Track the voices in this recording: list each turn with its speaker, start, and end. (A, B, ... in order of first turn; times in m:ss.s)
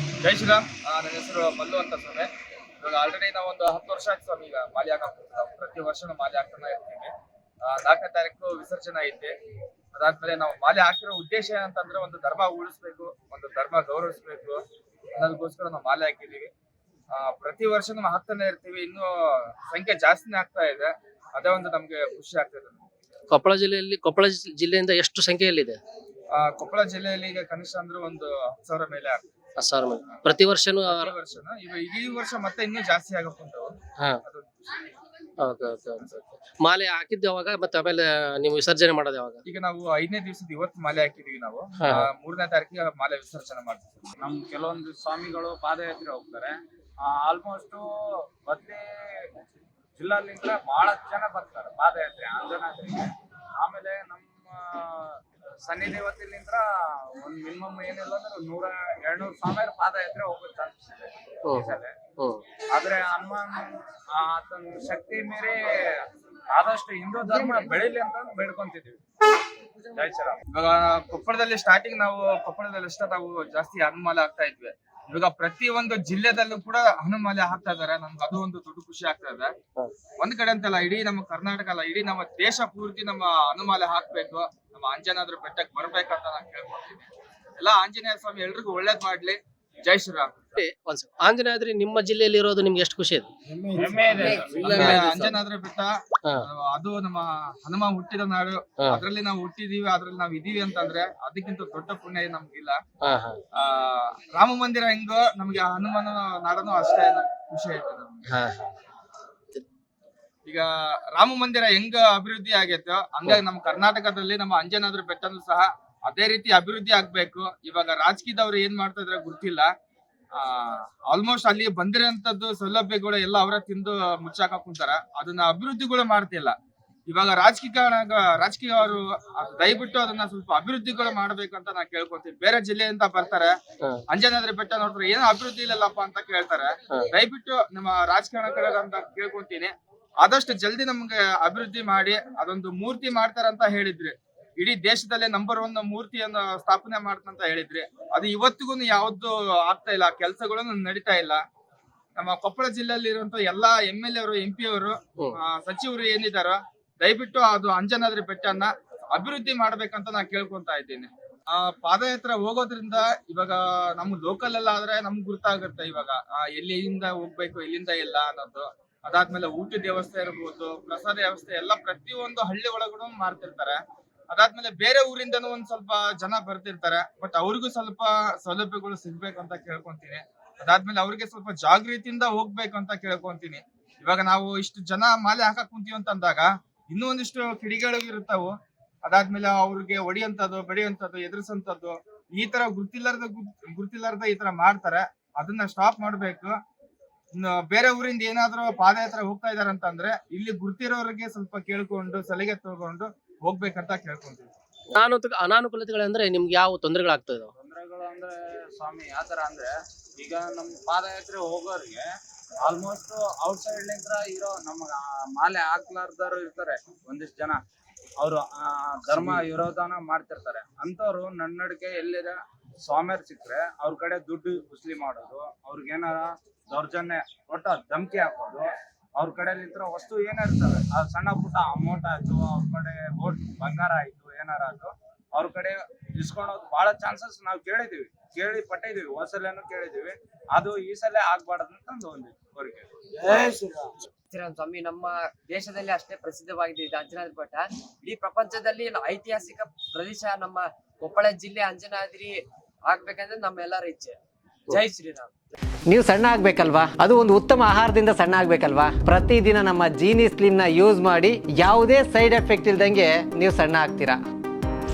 0:00.2-0:02.3 A
0:02.8-0:07.1 A
0:07.6-0:09.3 A
0:09.9-0:14.6 A
0:15.2-0:16.5 A
0:17.1-0:22.8 A
0:23.3-0:25.8 B
0:26.3-0:29.2 A
0:29.6-0:31.1 B
0:30.9-0:34.9 A
0:35.4-0:39.4 B
0:39.4-0:43.9 A
0:41.8-0:42.1 B
0:44.2-0:49.3 C
0:50.0-1:02.0 C
1:01.4-1:02.4 B
1:02.7-1:09.0 C
1:09.8-1:10.4 C
1:10.5-1:19.5 A
1:20.2-1:30.3 A
1:30.6-1:33.3 B
1:33.7-1:35.0 C
1:34.1-1:42.8 A
1:34.3-1:35.4 B
1:43.0-1:43.4 B
1:43.5-1:48.2 A
1:48.3-1:48.7 B
1:50.4-1:59.7 A
2:00.4-2:06.6 A
2:07.1-2:13.6 A
2:14.1-2:31.4 A
2:32.2-3:08.5 A
3:09.0-3:16.5 A
3:17.3-3:24.5 A
3:24.9-3:27.5 B
3:27.5-3:32.1 C
3:32.6-3:37.6 C
3:38.2-4:03.7 C
4:04.3-4:14.1 D
4:14.7-4:15.3 D
4:15.9-4:24.2 E